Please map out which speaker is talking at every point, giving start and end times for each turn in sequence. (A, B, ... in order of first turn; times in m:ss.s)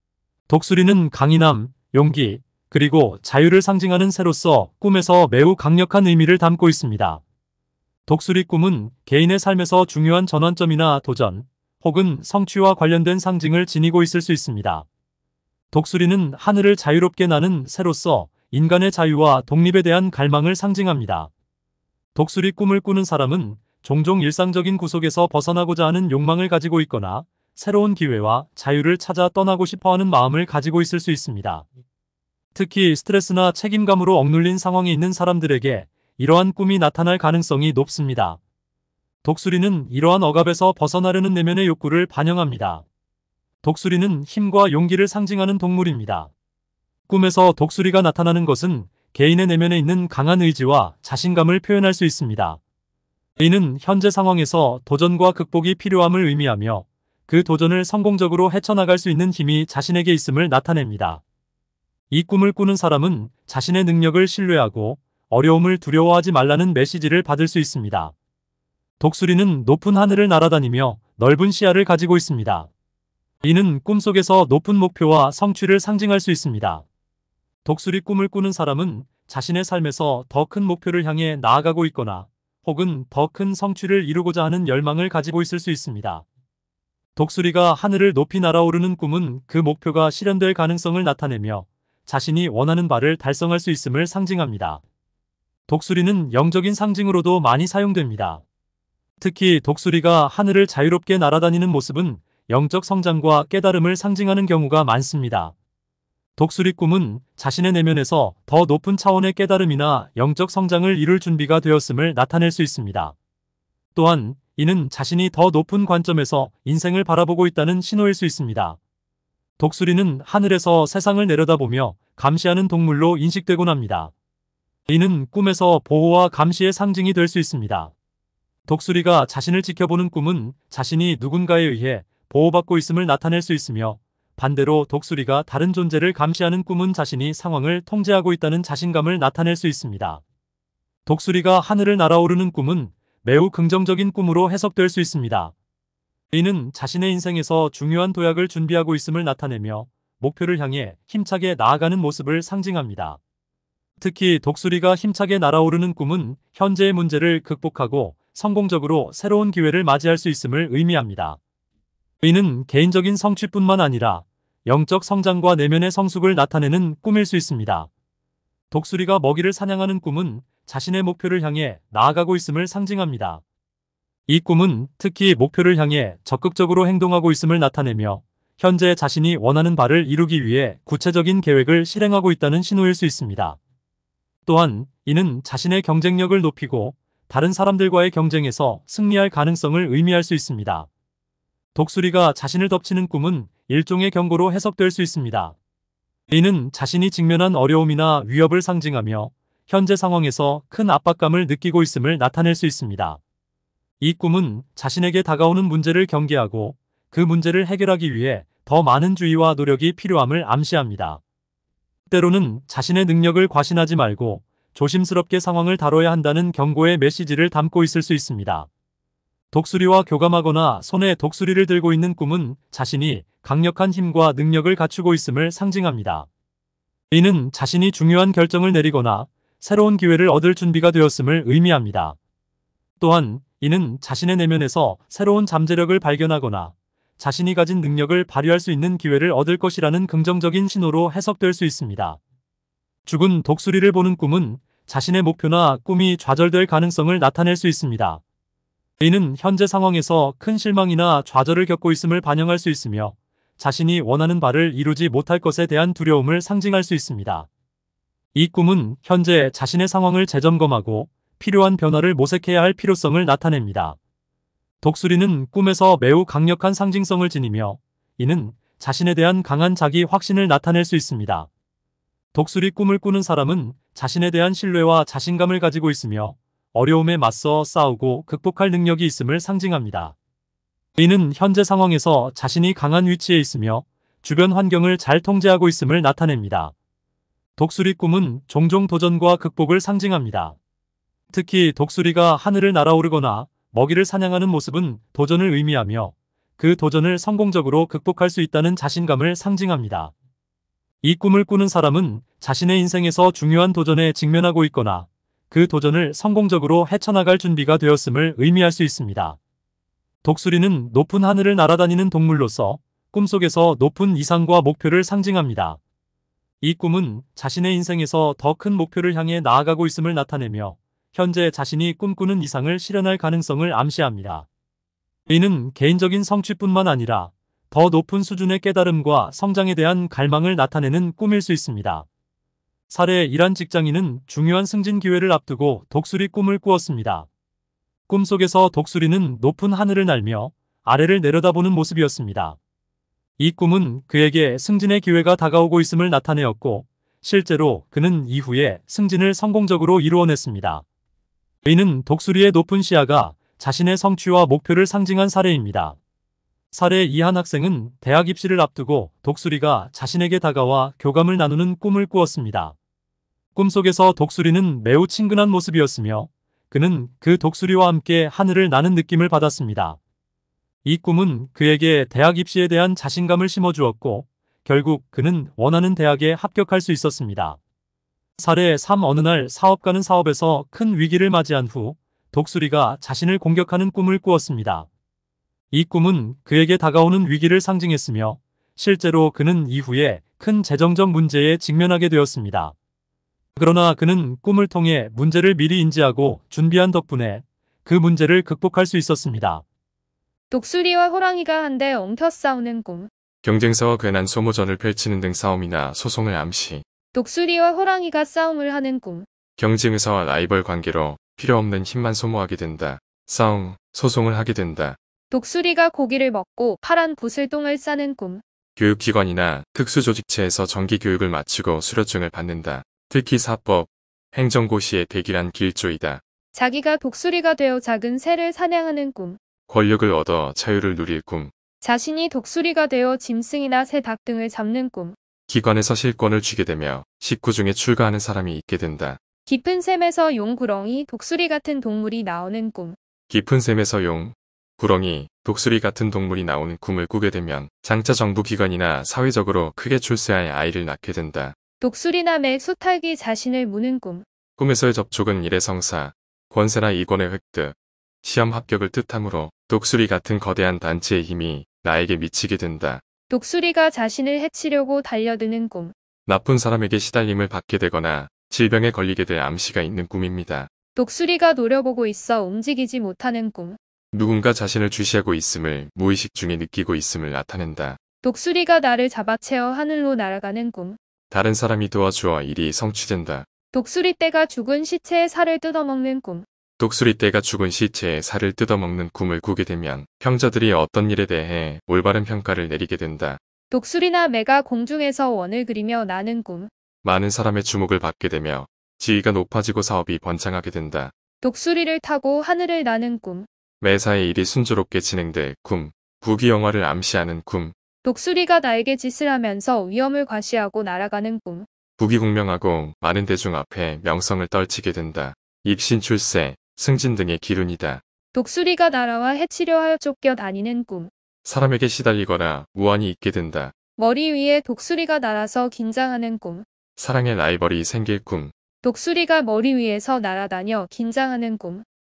0:00.5-0:07.2 A
0:08.1-0:14.8 A
0:15.7-0:21.3 A
0:22.1-0:31.7 A
0:32.5-0:38.4 A
0:39.2-0:42.8 A
0:43.6-0:46.3 A
0:47.1-0:52.6 A
0:53.4-1:01.2 A
1:02.1-1:08.1 A
1:09.0-1:12.7 A
1:13.4-1:16.8 A
1:17.6-1:26.2 A
1:27.2-1:34.8 A
1:35.7-1:38.4 A
1:39.2-1:45.5 A
1:46.4-1:53.1 A
1:53.9-1:58.8 A
1:59.6-2:04.1 A
2:04.9-2:07.9 A
2:08.7-2:20.2 A
2:21.0-2:25.5 A
2:26.3-2:33.2 A
2:34.0-2:41.4 A
2:42.2-2:47.9 A
2:48.7-2:53.4 A
2:54.3-3:03.6 A
3:04.4-3:10.9 A
3:11.7-3:15.6 A
3:16.3-3:23.2 A
3:24.0-3:31.2 A
3:32.1-3:38.7 A
3:39.5-3:46.3 A
3:47.1-3:52.2 A
3:53.0-4:02.2 A
4:03.0-4:08.2 A
4:09.0-4:17.5 A
4:18.3-4:24.0 A
4:24.8-4:31.5 A
4:32.3-4:40.1 A
4:41.0-4:46.7 A
4:47.6-4:50.6 A
4:51.3-5:00.1 A
5:01.0-5:09.4 A
5:10.2-5:15.8 A
5:16.6-5:24.5 A
5:25.3-5:32.1 A
5:32.9-5:37.3 A
5:38.1-5:42.6 A
5:43.4-5:50.8 A
5:51.6-5:56.0 A
5:56.7-6:02.8 A
6:03.5-6:10.0 A
6:10.8-6:17.6 A
6:18.4-6:24.9 A
6:25.7-6:32.7 A
6:33.6-6:39.6 A
6:40.5-6:43.1 B
6:43.4-6:46.8 C
6:47.1-6:49.3 B
6:49.6-6:55.0 C
6:55.3-6:58.4 B
6:58.8-7:06.2 C
7:06.5-7:09.4 B
7:09.7-7:11.5 C
7:11.8-7:15.2 B
7:15.5-7:19.2 C
7:19.5-7:23.0 B
7:23.3-7:31.6 C
7:31.8-7:34.2 B
7:34.6-7:43.0 C
7:43.3-7:45.9 B
7:46.2-7:50.7 C
7:50.9-7:53.8 B
7:54.1-7:58.0 C
7:58.2-8:01.0 B
8:01.3-8:03.5 C
8:03.7-8:06.4 B
8:06.8-8:13.4 C
8:13.7-8:16.7 B
8:17.0-8:21.1 C
8:21.4-8:23.5 B
8:23.8-8:27.7 C
8:28.0-8:31.7 B
8:32.0-8:38.0 C
8:38.3-8:41.1 B
8:41.4-8:43.7 C
8:44.0-8:46.6 B
8:47.0-8:48.5 C
8:48.8-8:51.8 B